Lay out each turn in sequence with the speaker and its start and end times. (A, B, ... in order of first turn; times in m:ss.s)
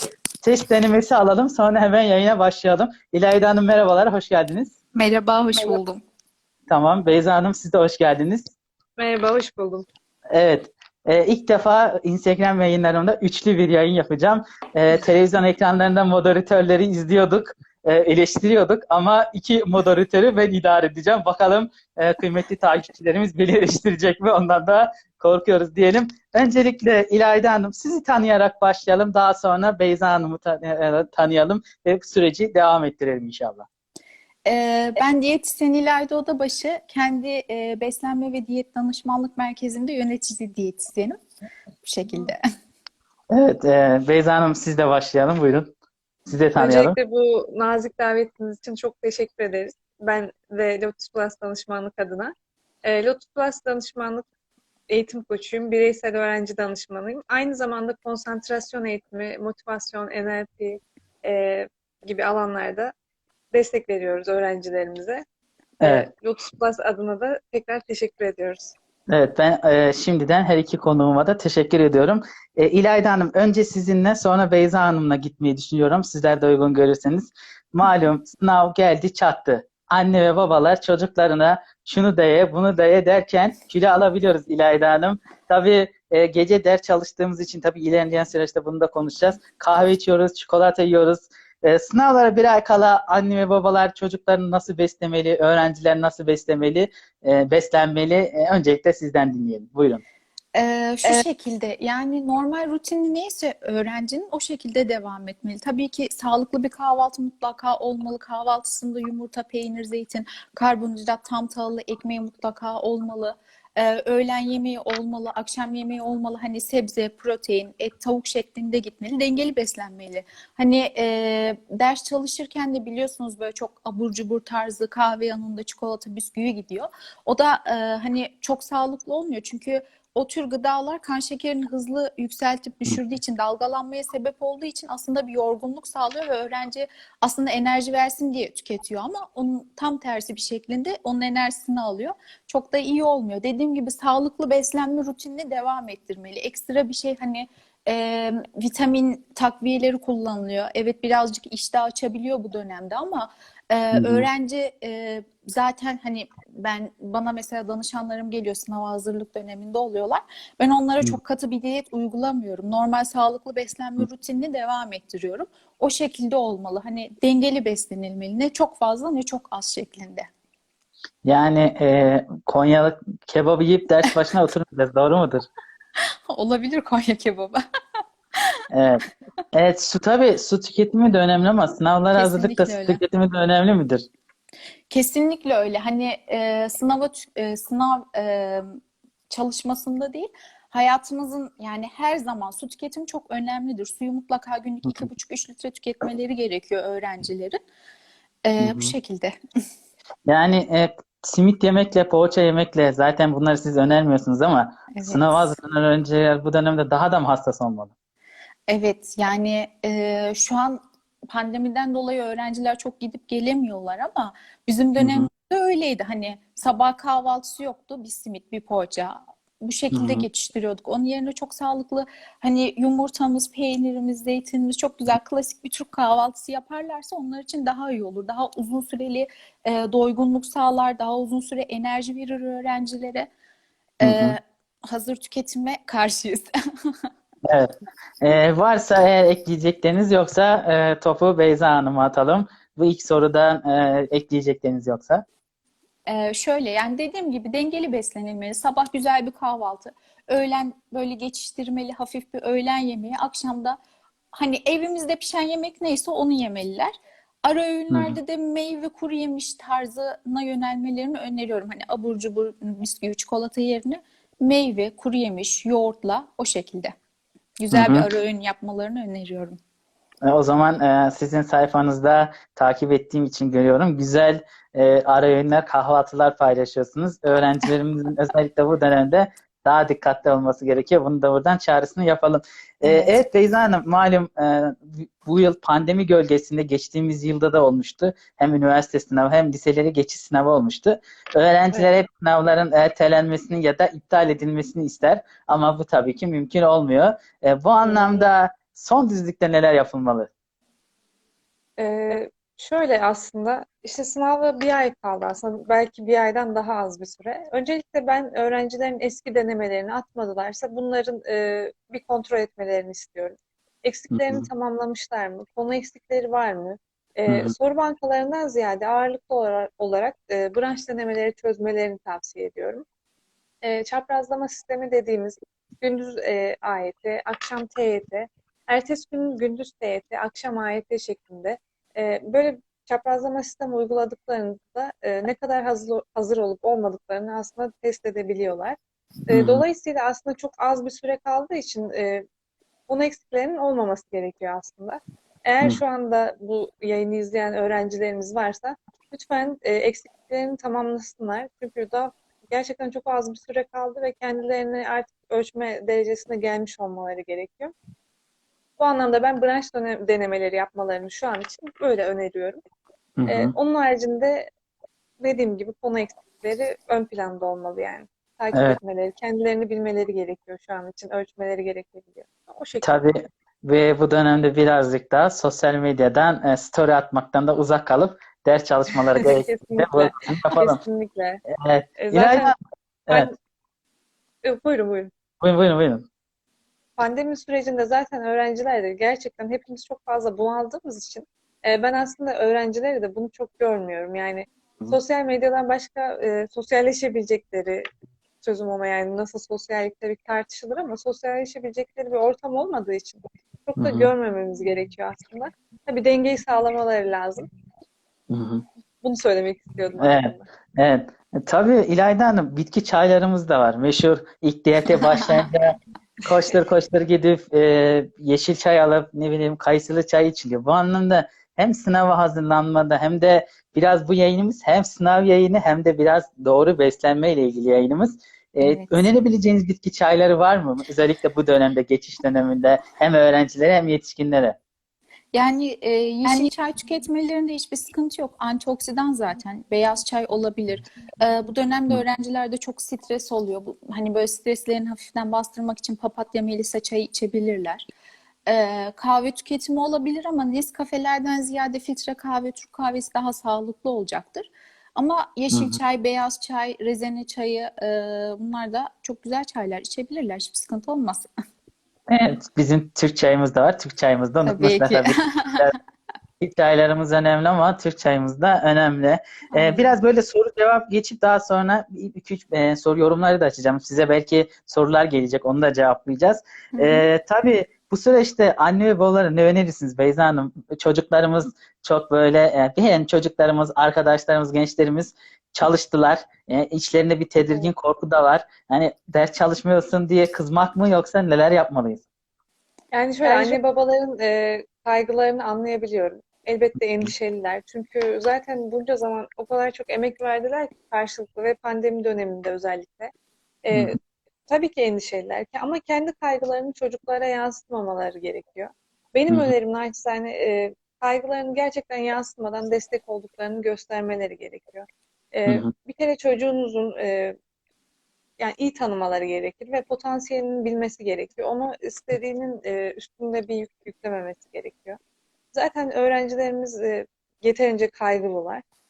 0:00.4-0:04.8 A
0:05.0-0:06.0 B
0:06.7-0:08.5 A
0:09.0-0:09.9 C
0:10.3-0:33.7 A
0:34.5-0:41.2 B
0:41.8-0:42.4 B
0:43.3-0:45.7 A
0:46.3-0:47.0 A
0:46.6-0:52.3 C
0:52.8-0:54.2 C
0:54.9-1:02.9 C
1:03.5-1:05.2 C
1:05.8-1:06.1 A
1:05.8-1:08.7 C
1:09.1-1:40.0 A
1:40.6-2:50.3 B
2:33.9-2:34.3 A
2:51.2-2:55.4 A
2:56.0-2:57.6 B
2:58.7-3:04.0 A
3:02.2-3:03.0 B
3:04.9-3:17.6 B
3:18.4-3:19.4 B
3:18.6-3:18.9 A
3:20.3-3:27.9 A
3:24.9-3:25.6 B
3:28.7-3:53.3 B
3:35.0-3:35.3 A
3:39.9-3:40.3 A
3:54.0-3:57.1 B
3:54.0-3:54.4 A
3:57.4-4:05.2 A
4:06.1-4:13.8 B
4:14.3-4:26.9 B
4:17.9-4:18.2 A
4:27.6-4:29.6 B
4:27.7-4:28.1 A
4:30.2-5:00.3 A
4:42.9-4:43.1 B
4:57.8-4:58.2 C
5:01.8-5:22.8 C
5:14.1-5:14.5 A
5:17.3-5:17.5 A
5:23.6-5:38.8 C
5:39.3-5:42.2 C
5:39.3-5:39.6 A
5:42.9-5:57.7 C
5:58.8-6:02.6 C
6:03.2-6:03.5 A
6:03.3-6:04.5 C
6:05.2-6:13.0 C
6:08.5-6:08.8 A
6:12.8-6:20.8 A
6:19.2-6:21.4 C
6:21.5-6:22.5 A
6:22.0-6:22.5 C
6:24.4-6:25.1 C
6:25.4-6:26.1 A
6:27.0-6:37.8 C
6:38.4-6:47.5 C
6:43.8-6:44.1 A
6:48.3-6:48.6 A
6:49.0-6:50.4 C
6:50.0-7:14.6 A
7:08.6-7:09.1 B
7:15.3-7:27.9 B
7:28.4-7:41.3 B
7:35.5-7:35.8 A
7:42.1-7:45.8 A
7:44.4-7:45.6 B
7:46.4-8:12.0 A
7:49.5-7:49.9 B
7:56.8-7:57.0 B
8:12.9-8:23.1 C
8:13.2-8:13.6 A
8:23.6-8:37.4 C
8:23.7-8:24.0 A
8:35.5-8:35.7 A
8:38.4-8:45.0 C
8:45.5-8:48.6 C